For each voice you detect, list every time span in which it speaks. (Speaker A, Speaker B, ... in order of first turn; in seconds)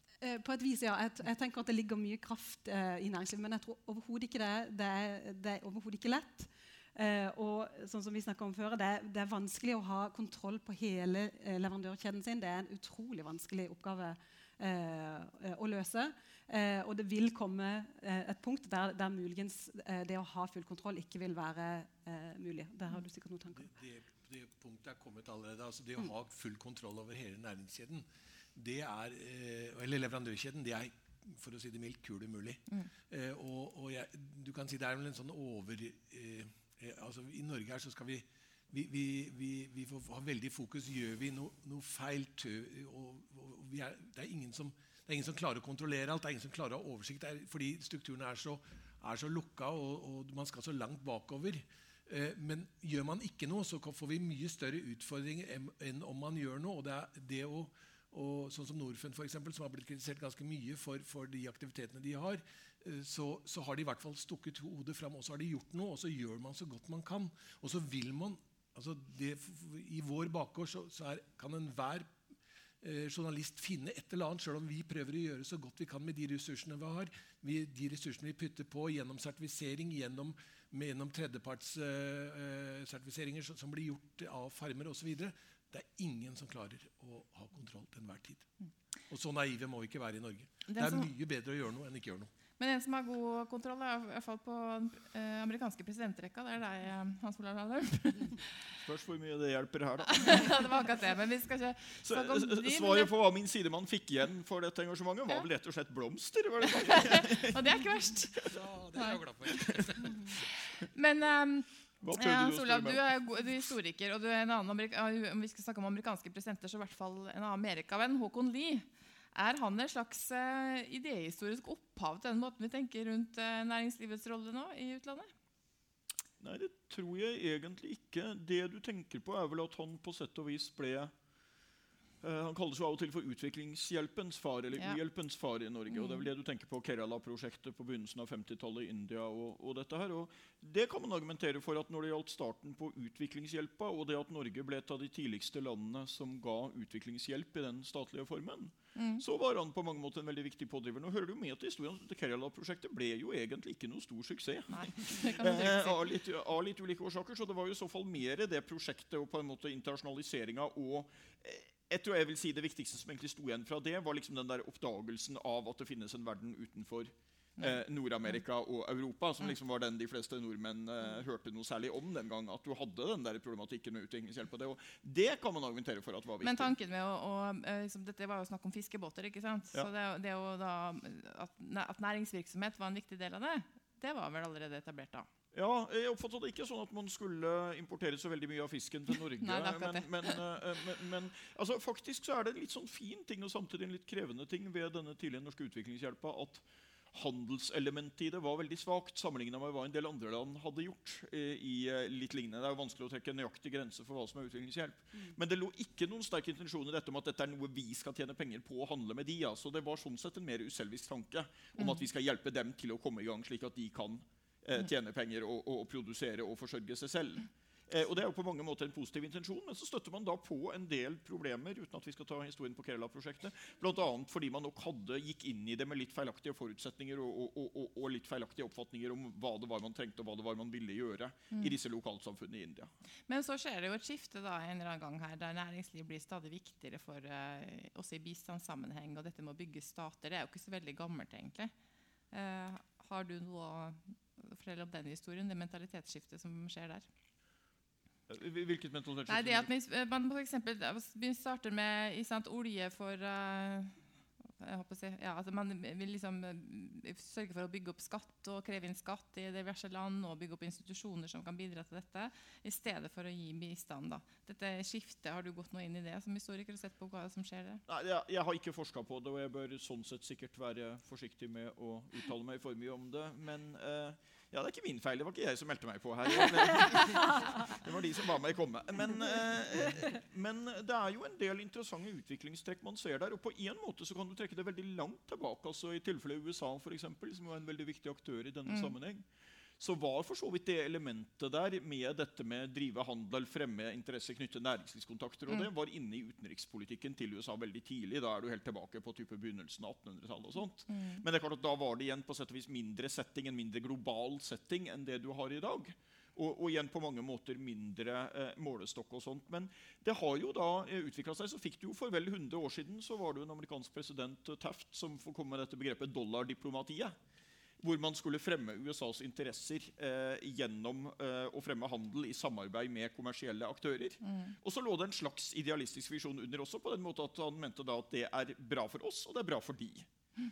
Speaker A: 0.2-23.7
Speaker B: 23.6-72.1, 72.8-88.5, 89.1-92.3, 108.5-110.2
Speaker C: 90.7-91.1, 92.6-98.4, 100.1-103.1, 106.7-108.4, 109.0-109.2, 110.9-125.3, 134.7-135.0, 135.9-136.3, 148.9-149.2, 154.7-156.1, 167.6-168.4, 176.4-185.3, 189.4-190.4, 211.8-212.1, 233.3-241.7, 242.3-247.1, 249.3-254.0, 254.6-267.8, 288.7-288.9, 300.9-301.2, 324.2-324.6
Speaker D: 98.8-100.6, 102.0-107.6, 112.0-113.0, 126.4-131.1, 132.2-176.7, 185.5-232.9, 248.3-249.7, 267.9-289.2, 289.8-317.2, 317.8-330.1